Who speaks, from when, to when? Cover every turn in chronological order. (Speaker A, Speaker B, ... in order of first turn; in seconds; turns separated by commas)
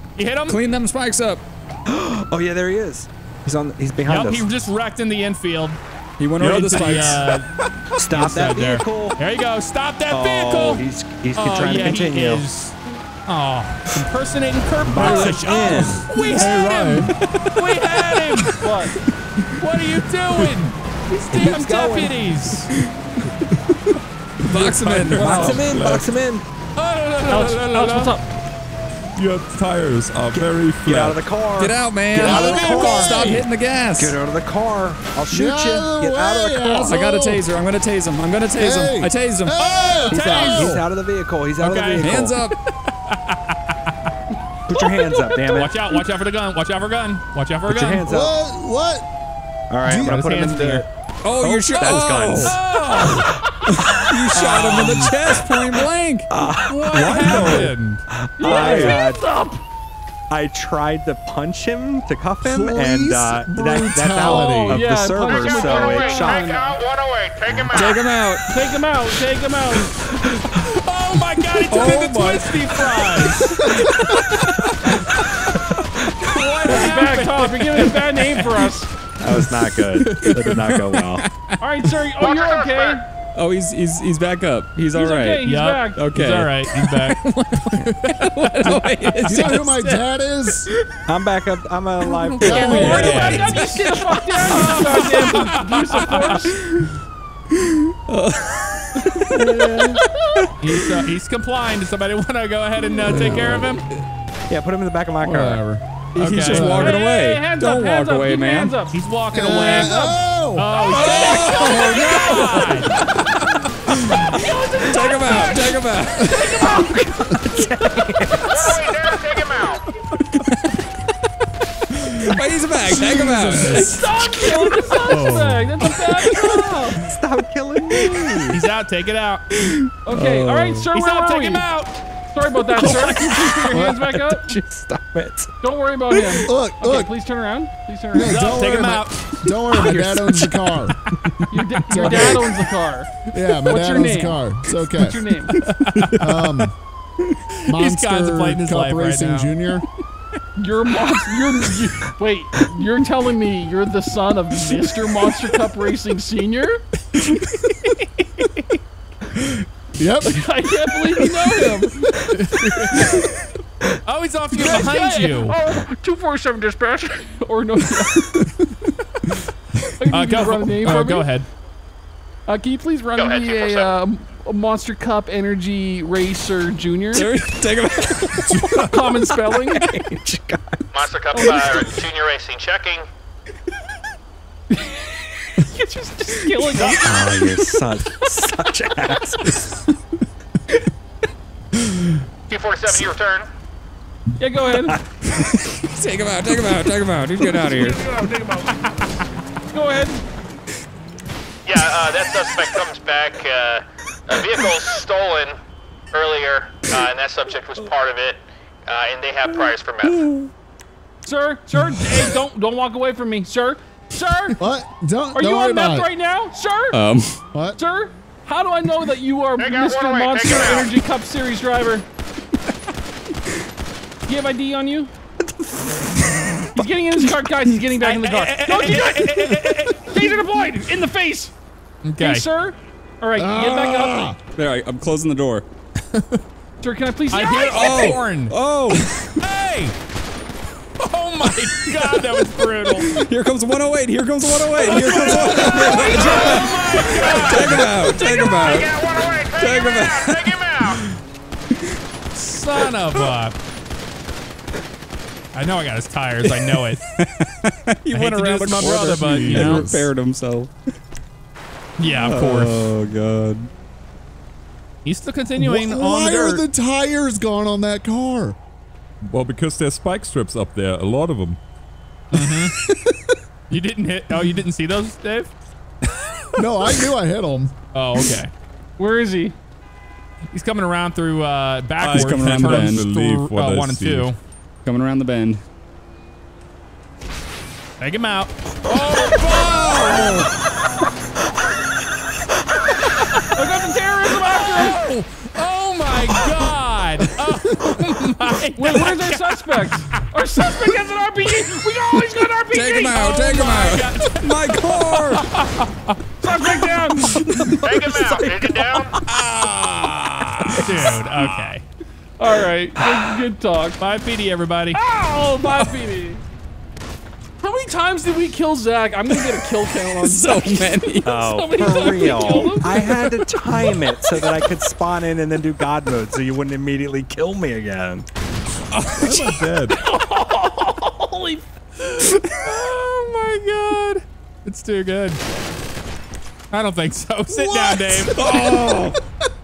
Speaker A: 0.1-0.6, Speaker B: 0.5-1.4, Speaker C: 1.9-4.5, Speaker A: 4.0-5.8, Speaker B: 6.2-7.2, Speaker A: 6.4-7.5, Speaker D: 6.4-6.9, Speaker C: 7.9-9.2, Speaker A: 8.1-10.8, Speaker C: 10.1-12.4, Speaker A: 11.3-18.7, Speaker C: 14.8-16.1, Speaker D: 15.0-17.8, Speaker E: 18.6-18.9, Speaker A: 19.5-22.7, Speaker C: 21.3-22.2, Speaker B: 24.4-25.7, Speaker D: 24.5-26.2, Speaker C: 25.1-26.4, Speaker A: 26.8-28.1, Speaker E: 27.3-28.2, Speaker D: 29.1-31.2, Speaker C: 30.3-33.4, Speaker B: 31.6-34.2, Speaker A: 32.2-33.4, Speaker F: 32.2-33.4, Speaker C: 34.0-37.0, Speaker F: 35.3-37.5, Speaker B: 36.8-39.7, Speaker F: 38.6-40.9, Speaker A: 39.6-40.8, Speaker C: 40.1-42.4, Speaker A: 41.6-43.9, Speaker B: 42.0-42.6, Speaker C: 44.7-46.0, Speaker E: 45.0-45.3, Speaker A: 45.5-48.0, Speaker C: 47.6-48.3, Speaker F: 48.0-49.0, Speaker C: 49.7-54.0, Speaker F: 49.8-50.1, Speaker A: 50.0-50.9, Speaker B: 51.2-52.6, Speaker A: 51.8-53.3, Speaker B: 53.8-56.3, Speaker A: 54.3-55.1, Speaker C: 56.3-57.6, Speaker A: 56.6-58.0, Speaker D: 56.9-57.7, Speaker C: 58.1-59.2, Speaker E: 58.4-59.6, Speaker C: 60.3-66.5, Speaker F: 62.4-64.8, Speaker E: 64.2-66.8, Speaker G: 65.1-68.2, Speaker B: 67.7-68.5, Speaker E: 68.5-69.9, Speaker A: 70.6-73.6, Speaker D: 71.7-72.6, Speaker B: 73.4-75.0, Speaker F: 73.7-74.0, Speaker C: 76.0-76.3, Speaker A: 76.2-78.7, Speaker E: 76.7-78.9, Speaker C: 79.2-81.2, Speaker A: 79.4-80.9, Speaker B: 81.2-81.5, Speaker E: 81.6-83.0, Speaker G: 82.1-83.0, Speaker B: 83.3-90.1, Speaker E: 84.9-86.0, Speaker A: 85.4-89.1, Speaker F: 89.2-90.7, Speaker C: 91.1-93.4, Speaker B: 92.0-97.0, Speaker E: 92.4-96.6, Speaker F: 92.5-93.1, Speaker A: 92.6-93.7, Speaker A: 94.4-96.5, Speaker B: 97.5-101.0, Speaker A: 100.6-103.8, Speaker B: 103.0-104.0, Speaker F: 103.1-103.7, Speaker C: 104.5-105.6, Speaker F: 105.2-105.8, Speaker B: 106.1-108.8, Speaker A: 106.2-106.8, Speaker F: 106.5-106.9, Speaker E: 106.6-109.0, Speaker A: 108.9-113.0, Speaker F: 109.3-110.8, Speaker E: 109.5-109.8, Speaker B: 110.8-117.6, Speaker E: 110.9-112.7, Speaker E: 114.3-117.5, Speaker C: 116.6-118.8, Speaker G: 118.5-119.8, Speaker B: 120.2-120.9, Speaker B: 121.9-127.0, Speaker F: 123.1-124.1, Speaker E: 123.5-127.0, Speaker C: 127.0-128.6, Speaker B: 127.9-128.5, Speaker A: 128.5-129.4, Speaker B: 129.5-130.9, Speaker E: 130.1-131.7, Speaker A: 130.9-132.0, Speaker E: 132.3-134.6, Speaker A: 132.8-133.6, Speaker C: 133.7-135.5, Speaker E: 135.6-138.6, Speaker F: 136.4-137.1, Speaker F: 138.1-142.7, Speaker A: 138.2-140.2, Speaker B: 139.9-140.5, Speaker E: 141.5-145.6, Speaker F: 143.3-145.2, Speaker A: 145.5-146.4, Speaker F: 146.1-146.7, Speaker A: 147.6-149.5, Speaker F: 147.7-149.8, Speaker E: 150.6-156.8, Speaker A: 157.1-158.8, Speaker F: 160.0-160.4, Speaker E: 160.2-162.3, Speaker F: 161.2-161.6, Speaker A: 162.3-162.7, Speaker F: 162.7-163.2, Speaker A: 164.0-165.6, Speaker E: 164.6-168.5, Speaker E: 169.9-171.3, Speaker A: 170.1-171.5, Speaker E: 172.5-177.3, Speaker G: 173.1-174.0, Speaker B: 177.1-179.5, Speaker E: 178.8-179.9, Speaker C: 179.8-180.8, Speaker G: 180.9-183.1, Speaker E: 181.3-181.9, Speaker E: 184.7-187.3, Speaker B: 186.4-187.2, Speaker C: 186.9-189.6, Speaker G: 192.5-193.5, Speaker E: 194.4-195.0, Speaker C: 194.7-195.4, Speaker B: 195.3-198.1, Speaker E: 197.5-198.8, Speaker E: 199.7-200.2, Speaker G: 201.7-205.6, Speaker G: 206.1-210.3, Speaker B: 210.0-210.5, Speaker E: 211.2-214.6, Speaker F: 214.6-216.1, Speaker E: 215.3-217.0, Speaker B: 216.9-217.4, Speaker E: 217.7-222.1, Speaker G: 219.6-220.9, Speaker E: 224.3-225.1, Speaker C: 225.4-226.0, Speaker E: 226.7-231.5, Speaker A: 228.0-230.3, Speaker A: 232.0-232.4, Speaker E: 232.2-234.3, Speaker F: 233.3-234.3, Speaker B: 234.5-235.6, Speaker A: 236.1-236.4, Speaker E: 236.8-238.2, Speaker A: 237.3-238.5, Speaker B: 237.7-239.4, Speaker A: 239.4-239.9, Speaker A: 241.0-243.1, Speaker B: 241.5-251.2, Speaker A: 245.2-248.1, Speaker G: 248.1-251.0, Speaker A: 252.3-253.5, Speaker A: 255.5-257.0, Speaker B: 256.4-260.7, Speaker A: 258.1-259.9, Speaker F: 258.8-260.1, Speaker D: 258.9-259.9, Speaker A: 262.0-262.9, Speaker B: 262.0-263.7, Speaker A: 265.0-266.6, Speaker F: 265.6-268.6, Speaker D: 269.2-271.6, Speaker A: 272.3-272.7, Speaker A: 273.7-275.5, Speaker F: 276.6-277.7, Speaker A: 277.9-278.5, Speaker E: 279.0-279.5, Speaker A: 280.5-284.4, Speaker D: 282.0-284.3, Speaker B: 282.1-283.1, Speaker B: 284.8-285.6, Speaker A: 288.0-290.3, Speaker B: 289.3-290.4, Speaker A: 293.1-293.5, Speaker E: 293.5-295.0, Speaker A: 294.5-300.2, Speaker E: 298.8-303.3, Speaker B: 302.7-305.6, Speaker A: 303.2-306.2, Speaker E: 306.4-307.4, Speaker B: 306.7-311.2, Speaker G: 307.8-309.1, Speaker E: 308.1-308.8, Speaker A: 310.8-311.8, Speaker E: 312.4-314.0, Speaker A: 314.0-315.0, Speaker E: 314.9-316.4, Speaker E: 317.6-323.2, Speaker B: 319.3-321.5, Speaker C: 321.2-328.2, Speaker B: 322.2-323.4, Speaker D: 329.1-330.0, Speaker E: 329.1-331.6, Speaker A: 332.0-335.4, Speaker A: 336.7-338.4, Speaker F: 337.5-339.1